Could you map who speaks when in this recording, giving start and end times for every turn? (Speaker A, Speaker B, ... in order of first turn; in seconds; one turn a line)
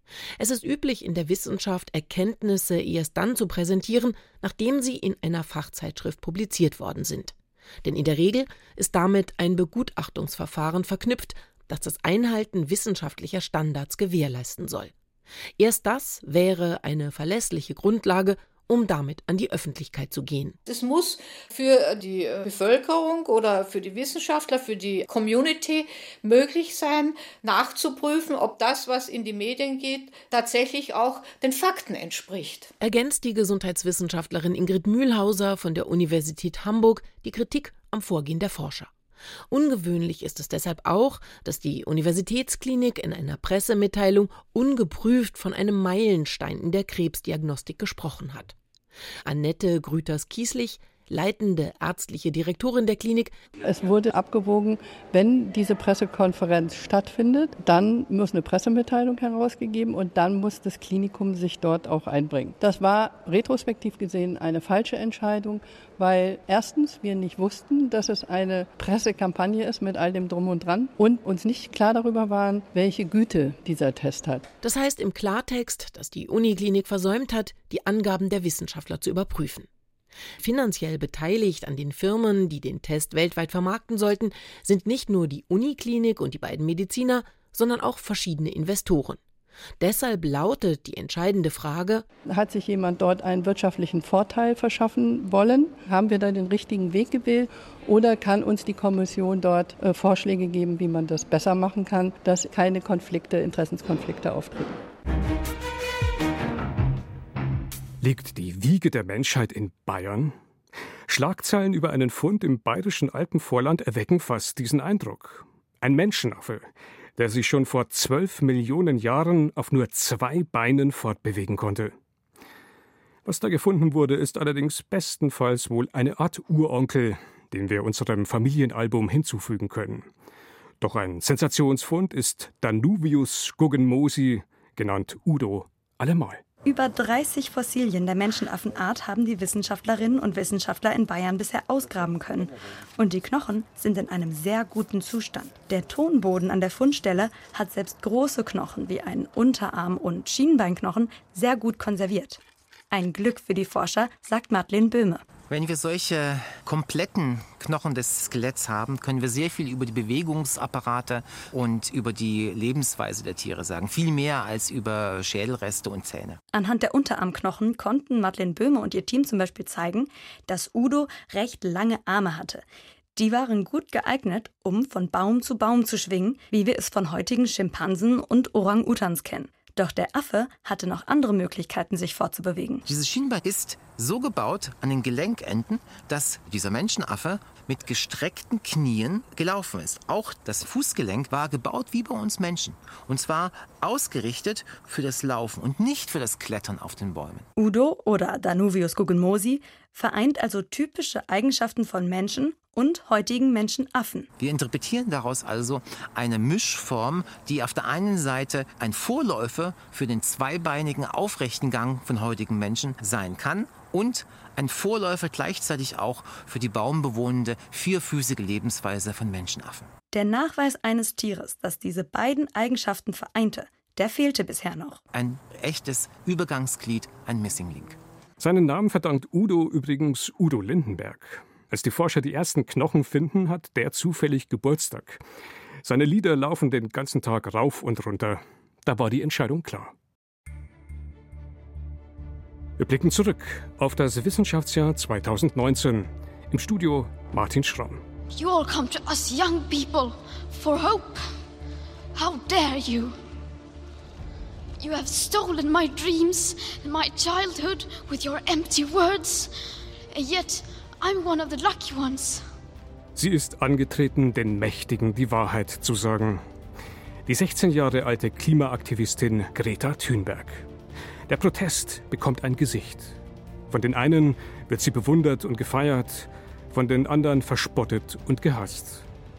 Speaker A: 0.4-14.9
Speaker A: 15.6-20.6
Speaker B: 20.6-32.7
Speaker A: 32.8-38.9
Speaker A: 39.5-48.5
Speaker A: 49.3-53.4
Speaker C: 53.6-74.5
Speaker A: 74.6-79.7
Speaker A: 80.4-89.2
Speaker A: 89.8-92.1
Speaker C: 92.3-104.8
Speaker D: 108.0-110.3
Speaker D: 111.1-121.9
Speaker D: 123.2-130.1
Speaker D: 130.8-136.4
Speaker E: 136.6-152.4
Speaker E: 152.9-155.3
Speaker F: 155.4-166.4
Speaker E: 166.5-172.6
Speaker E: 173.2-182.8
Speaker F: 182.9-197.5
Speaker E: 197.6-204.3
Speaker F: 204.4-219.9
Speaker E: 220.1-225.0
Speaker F: 225.1-228.0
Speaker D: 228.4-235.2
Speaker D: 235.8-239.9
Speaker D: 242.8-248.0
Speaker G: 248.3-251.3
Speaker G: 252.2-253.2
Speaker G: 254.8-262.4
Speaker D: 263.1-266.4
Speaker D: 267.3-270.7
Speaker D: 271.3-273.2
Speaker D: 273.7-279.1